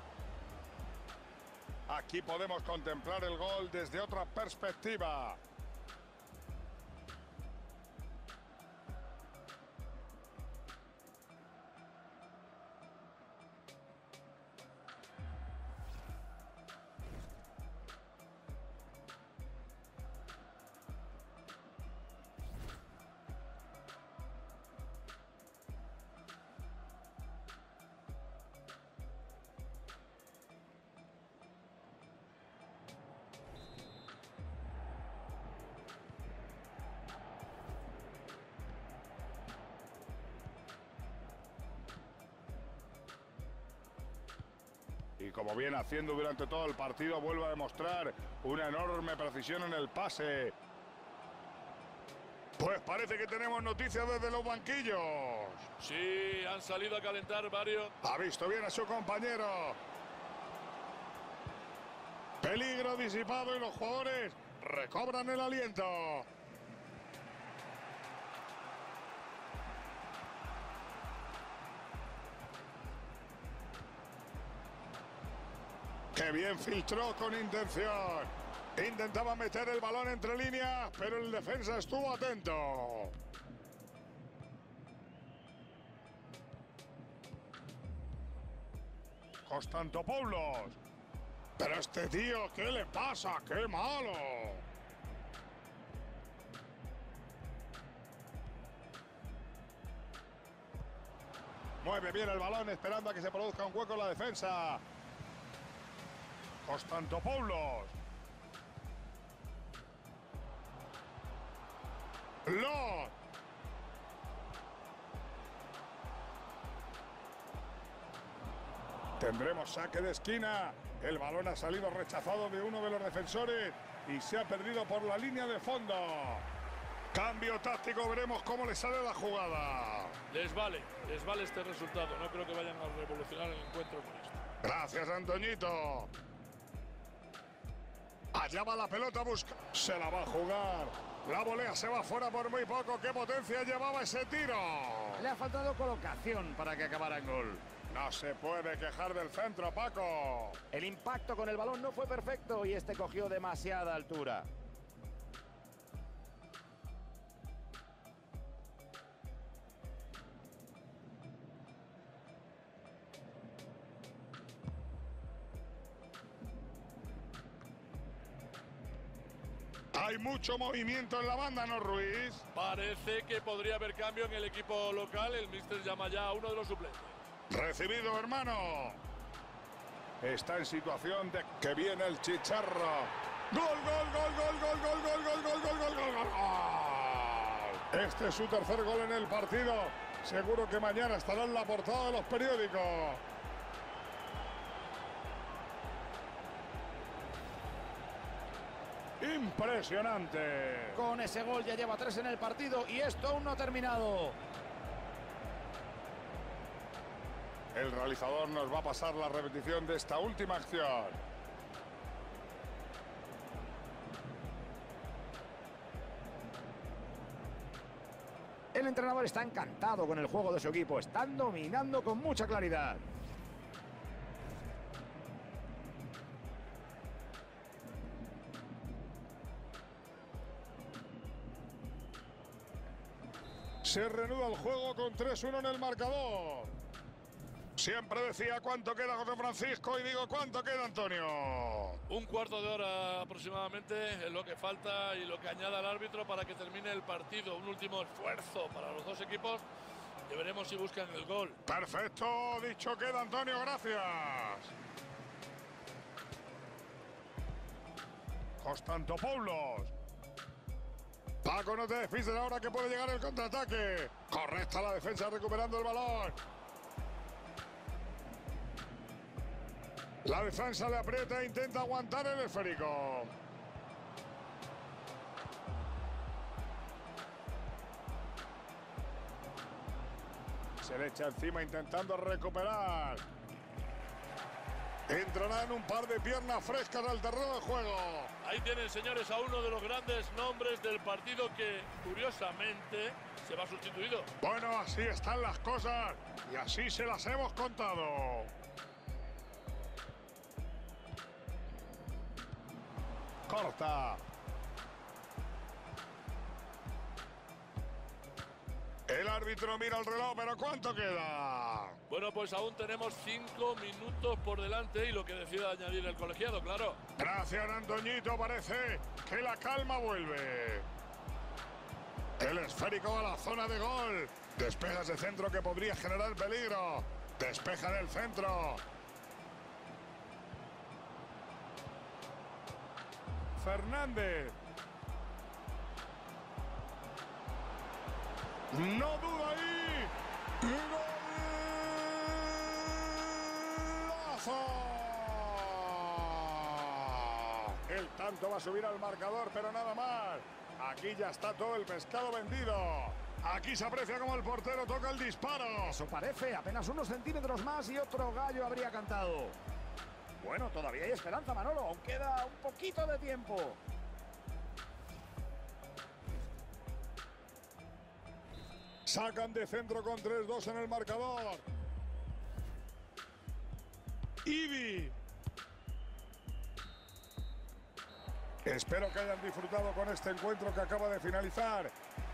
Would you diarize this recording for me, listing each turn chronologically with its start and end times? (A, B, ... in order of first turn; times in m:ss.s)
0:01.9-0:05.4 A
0:45.2-0:50.5 A
0:52.6-0:55.7 A
0:55.8-0:57.9 B
0:58.0-0:59.8 A
1:02.4-1:06.3 A
1:16.1-1:23.1 A
1:29.4-1:30.8 A
1:31.6-1:34.6 A
1:41.8-1:44.8 A
1:46.6-1:47.9 A
1:52.4-1:53.1 A
1:59.2-2:06.4 A
2:07.1-2:10.2 A
2:10.3-2:14.4 B
2:14.6-2:16.1 A
2:18.3-2:25.2 A
2:25.2-2:27.6 C
2:27.9-2:30.6 A
2:30.7-2:34.5 C
2:49.9-2:52.4 A
2:52.5-2:57.2 B
2:57.5-2:59.0 A
3:00.2-3:13.2 A
3:19.2-3:21.0 A
3:20.9-3:24.4 C
3:27.7-3:31.2 A
3:38.7-3:43.0 C
3:53.8-3:56.8 A
3:57.8-4:02.0 A
4:02.1-4:09.6 B
4:10.3-4:11.6 B
4:11.7-4:14.7 A
4:18.6-4:19.9 A
4:21.4-4:26.4 A
4:30.2-4:33.3 A
4:40.8-4:43.2 A
4:45.1-4:48.3 A
4:48.4-4:54.3 B
4:54.4-4:58.5 A
5:03.5-5:04.2 A
5:09.1-5:12.0 A
5:12.1-5:17.0 B
5:17.2-5:20.9 A
5:22.4-5:28.8 A
5:33.6-5:34.5 A
5:38.7-5:56.0 A
5:55.8-5:59.6 C
6:00.4-6:03.8 C
6:09.0-6:11.6 A
6:14.4-6:15.1 A
6:18.6-6:21.9 A